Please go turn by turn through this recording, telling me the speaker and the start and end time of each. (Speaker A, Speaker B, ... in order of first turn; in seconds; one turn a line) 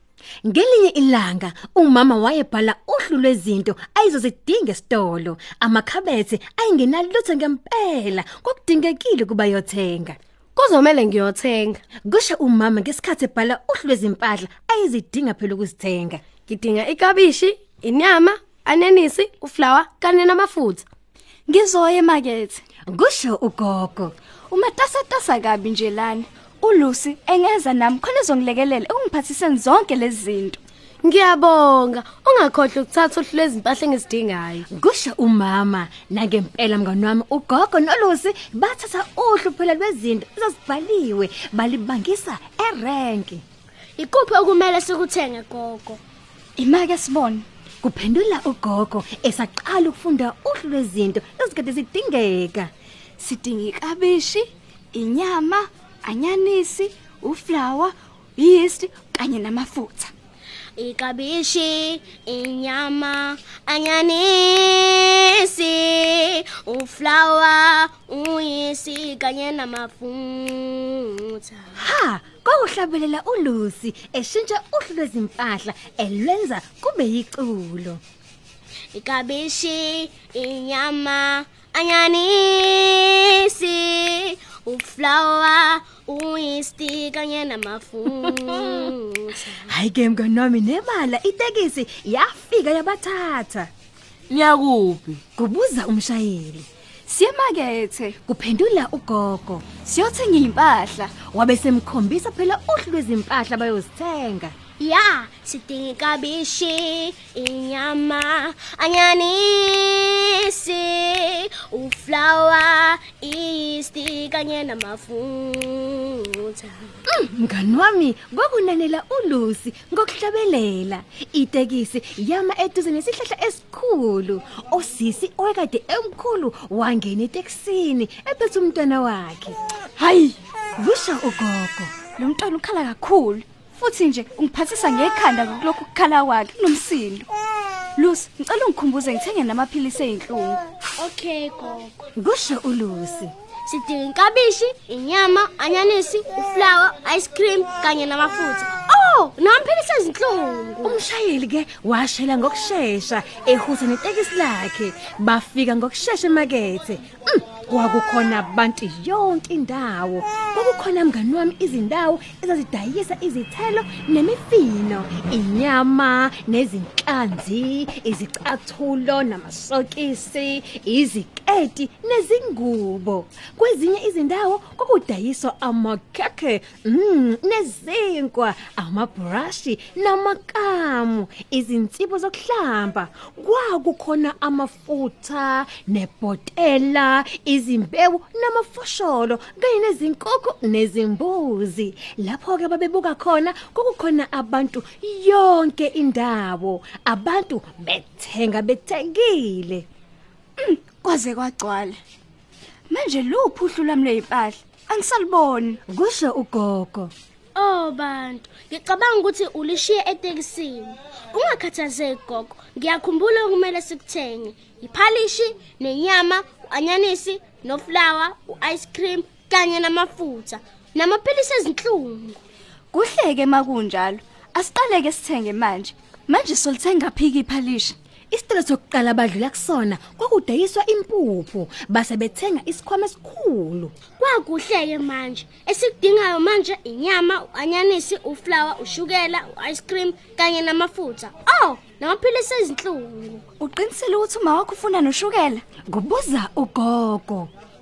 Speaker A: 0.4-10.2
Speaker B: 10.6-11.8
Speaker A: 12.0-16.2
Speaker B: 16.4-20.8
Speaker C: 21.5-22.6
Speaker A: 22.9-24.1
Speaker C: 24.5-30.6
Speaker B: 31.0-34.6
Speaker A: 34.7-43.4
Speaker D: 44.0-46.0
Speaker C: 46.6-47.5
Speaker A: 47.8-52.7
Speaker C: 53.2-60.1
Speaker D: 60.8-71.8
Speaker A: 71.8-78.0
Speaker D: 78.9-89.7
Speaker A: 89.6-93.7
Speaker B: 94.3-95.2
Speaker A: 95.3-96.7
Speaker C: 97.1-98.2
Speaker A: 98.2-99.6
Speaker C: 99.8-101.1
Speaker A: 101.3-104.5
Speaker D: 104.8-116.9
Speaker A: 117.1-129.6
Speaker C: 130.0-130.4
Speaker A: 130.8-131.9
Speaker C: 132.2-137.3
Speaker C: 138.0-140.6
Speaker D: 141.0-141.9
Speaker A: 142.2-143.3
Speaker D: 143.7-151.0
Speaker A: 150.8-199.8
Speaker C: 200.6-202.0
Speaker C: 202.9-205.8
Speaker A: 205.9-207.1
Speaker D: 207.6-222.4
Speaker C: 222.9-227.9
Speaker A: 228.3-233.9
Speaker D: 234.2-243.4
Speaker C: 243.6-245.6
Speaker A: 245.9-247.5